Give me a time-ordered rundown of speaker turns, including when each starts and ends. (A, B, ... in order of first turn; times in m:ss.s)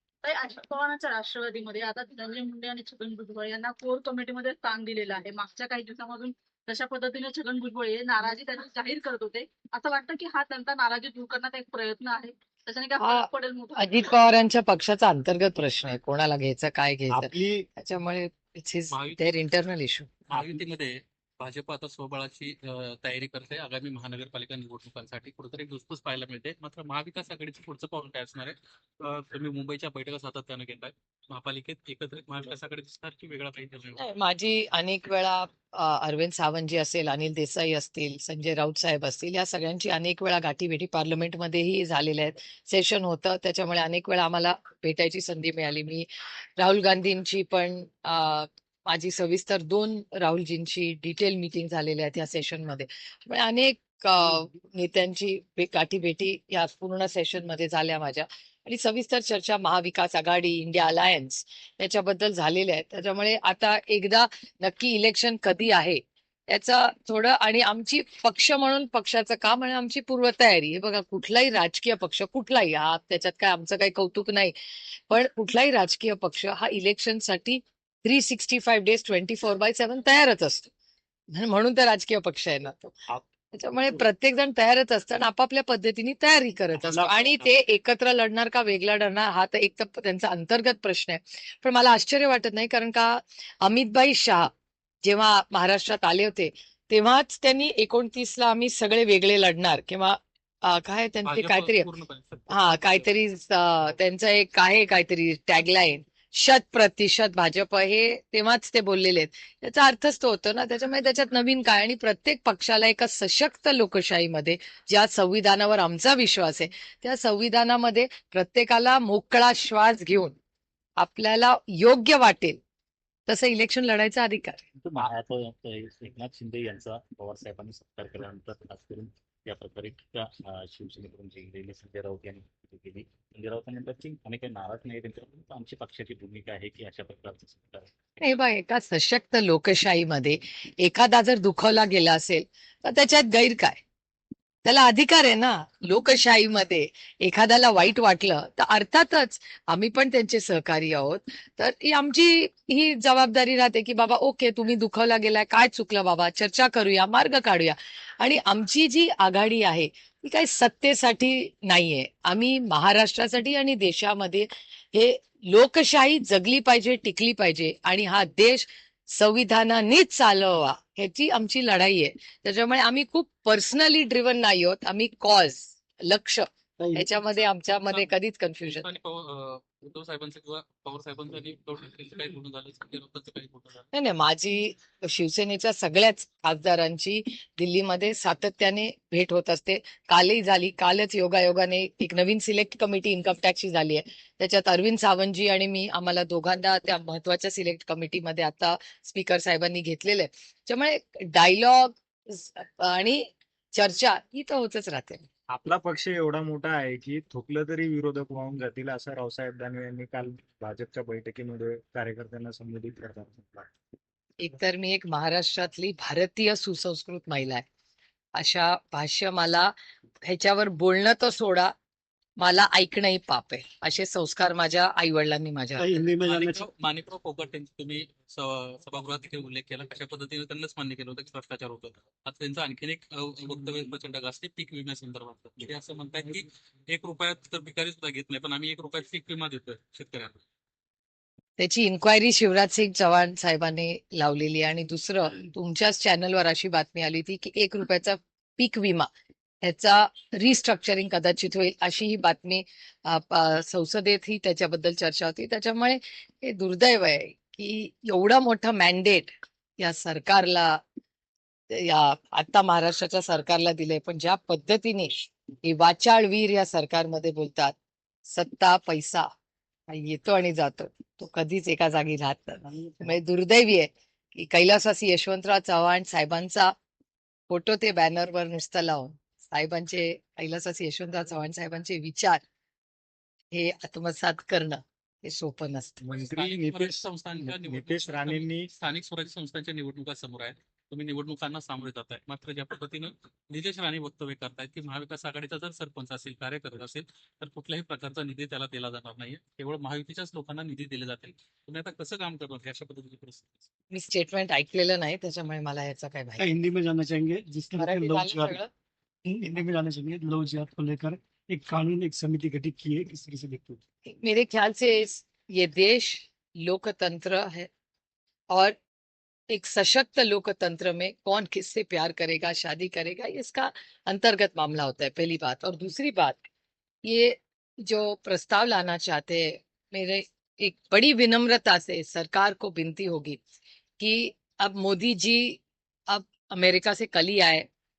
0:00.2-0:14.0 A
0:13.0-0:20.1 B
0:17.1-0:17.7 C
0:18.9-0:19.3 D
0:20.3-0:34.0 D
0:34.0-0:46.1 B
0:46.6-1:20.7 B
1:21.3-1:23.0 B
1:23.5-1:34.5 B
1:26.7-1:27.5 E
1:35.0-1:41.9 B
1:41.2-1:43.1 D
1:42.5-2:00.3 B
2:01.0-2:02.6 B
2:03.3-2:04.6 B
2:04.8-2:18.0 E
2:18.2-2:23.8 B
2:24.6-2:58.9 B
2:56.8-2:57.1 F
2:57.7-2:58.1 D
2:58.6-3:03.9 D
3:03.9-3:25.2 B
3:25.5-3:33.7 C
3:34.4-3:37.6 B
3:38.4-3:39.7 B
3:40.3-3:41.7 B
3:42.4-3:45.9 B
3:45.8-3:46.6 F
3:46.2-4:00.4 D
4:01.6-4:09.1 B
4:09.6-4:20.8 B
4:21.7-4:27.7 B
4:28.3-4:29.3 B
4:29.9-4:36.7 B
4:32.7-4:33.1 F
4:37.5-4:42.4 B
4:43.5-4:46.0 B
4:46.0-4:48.7 C
4:46.2-5:03.6 D
5:03.9-5:06.4 B
5:06.4-5:08.6 F
5:07.8-5:08.7 B
5:09.2-5:13.8 F
5:14.1-5:17.7 B
5:18.5-5:18.8 B
5:19.5-5:26.4 B
5:27.0-5:33.4 B
5:34.0-5:37.6 B